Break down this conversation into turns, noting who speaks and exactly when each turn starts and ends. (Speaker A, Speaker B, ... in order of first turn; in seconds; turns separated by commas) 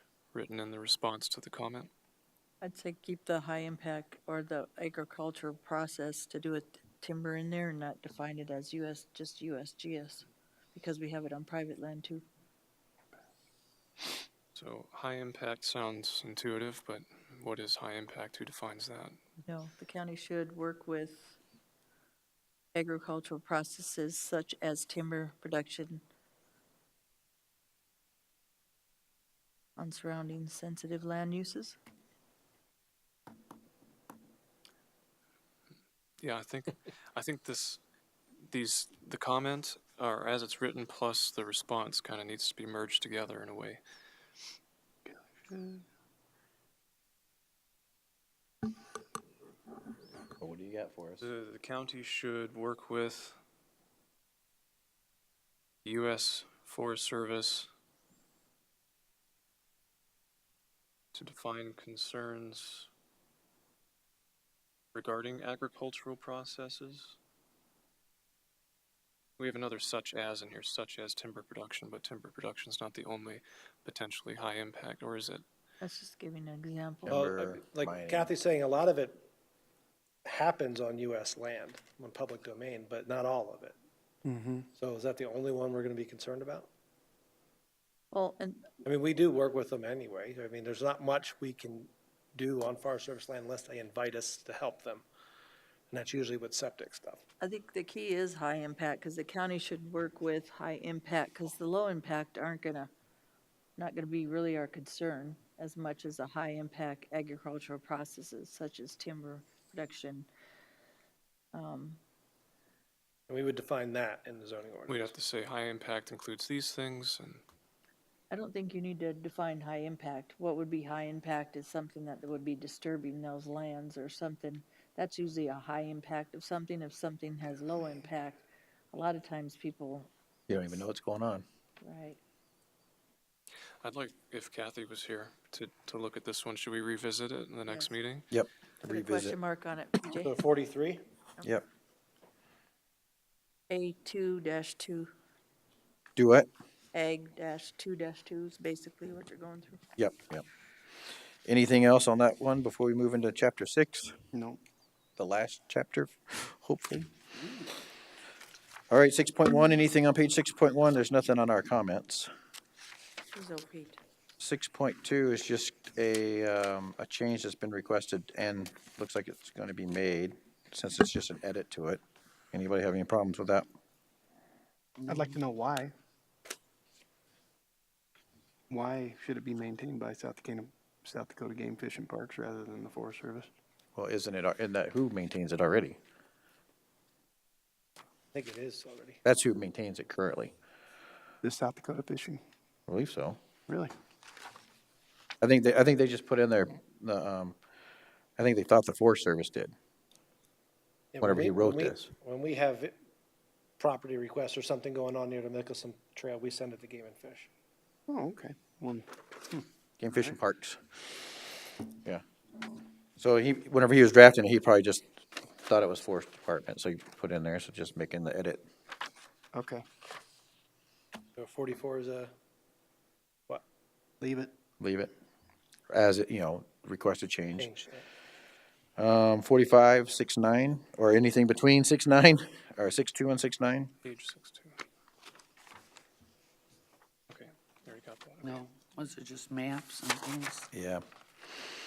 Speaker A: 0.3-1.9, Speaker B: 2.6-12.2, Speaker A: 14.5-19.2, Speaker B: 19.4-21.4, Speaker B: 22.7-26.0, Speaker B: 29.8-31.8, Speaker A: 36.2-37.8, Speaker A: 38.4-43.8, Speaker C: 45.1-45.9, Speaker D: 50.4-51.2, Speaker A: 51.2-53.4, Speaker A: 55.8-57.7, Speaker A: 61.1-62.9, Speaker A: 64.9-67.2, Speaker A: 69.4-75.4, Speaker B: 75.8-77.2, Speaker D: 77.0-78.3, Speaker E: 77.1-79.3, Speaker E: 80.2-83.8, Speaker C: 84.2-84.7, Speaker E: 84.8-86.7, Speaker B: 88.1-88.7, Speaker E: 88.8-95.0, Speaker E: 95.9-97.2, Speaker B: 97.4-102.9, Speaker B: 103.8-110.3, Speaker B: 111.5-112.0, Speaker E: 113.3-115.1, Speaker A: 114.9-117.4, Speaker B: 118.3-130.1, Speaker D: 130.5-131.4, Speaker B: 131.8-132.2, Speaker A: 133.8-138.3, Speaker B: 137.7-137.9, Speaker D: 138.3-139.3, Speaker B: 138.8-140.4, Speaker E: 140.2-141.0, Speaker B: 143.7-145.1, Speaker D: 146.2-146.5, Speaker B: 146.9-149.8, Speaker D: 150.0-150.4, Speaker D: 151.4-154.2, Speaker C: 154.3-154.6, Speaker D: 155.2-157.1, Speaker D: 158.9-162.3, Speaker B: 163.3-164.0, Speaker D: 164.4-172.0, Speaker D: 172.5-173.7, Speaker F: 175.0-175.3, Speaker C: 175.1-175.9, Speaker C: 178.7-183.5, Speaker D: 183.9-186.0, Speaker E: 188.3-189.2, Speaker D: 189.2-190.5, Speaker C: 191.4-192.4, Speaker D: 192.9-193.4, Speaker C: 193.7-193.9, Speaker D: 195.4-197.6, Speaker D: 198.4-199.7, Speaker E: 201.1-202.9, Speaker D: 201.2-202.1, Speaker E: 203.8-207.5, Speaker C: 208.1-210.3, Speaker D: 210.0-210.8, Speaker D: 213.2-218.7, Speaker C: 219.5-219.8, Speaker E: 221.3-222.3, Speaker C: 224.2-224.5, Speaker D: 224.8-225.1, Speaker D: 225.9-227.7, Speaker E: 227.6-228.0, Speaker D: 229.0-233.9, Speaker A: 234.0-234.8, Speaker A: 237.3-238.6, Speaker F: 238.4-240.7, Speaker D: 240.7-241.0